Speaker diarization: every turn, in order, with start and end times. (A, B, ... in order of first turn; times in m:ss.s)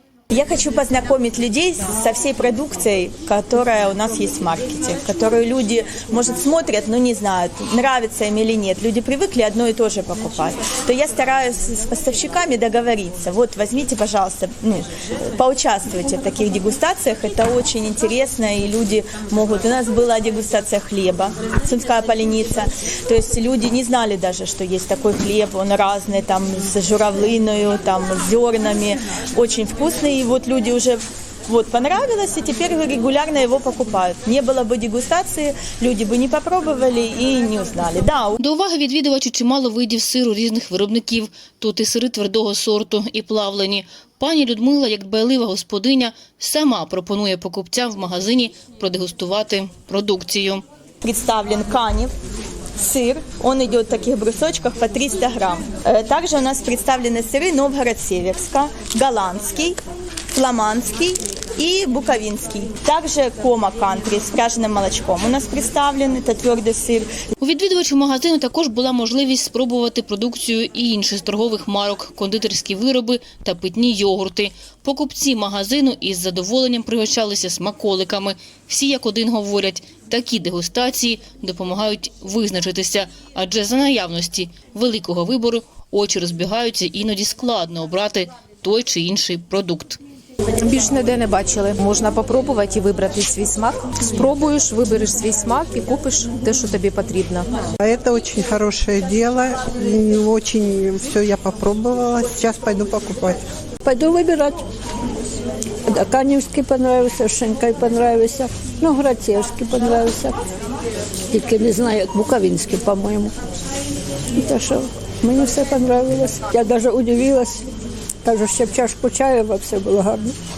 0:00.3-0:38.4 A
0:38.4-0:50.6 B
0:51.0-0:52.1 A
0:52.8-0:59.8 A
1:00.3-1:07.1 A
1:07.4-1:30.0 B
1:30.6-1:37.5 C
1:37.8-1:43.4 D
1:43.8-1:44.6 E
1:45.8-1:50.4 E
1:51.3-1:53.3 E
1:54.3-1:57.6 E
1:58.2-2:00.4 E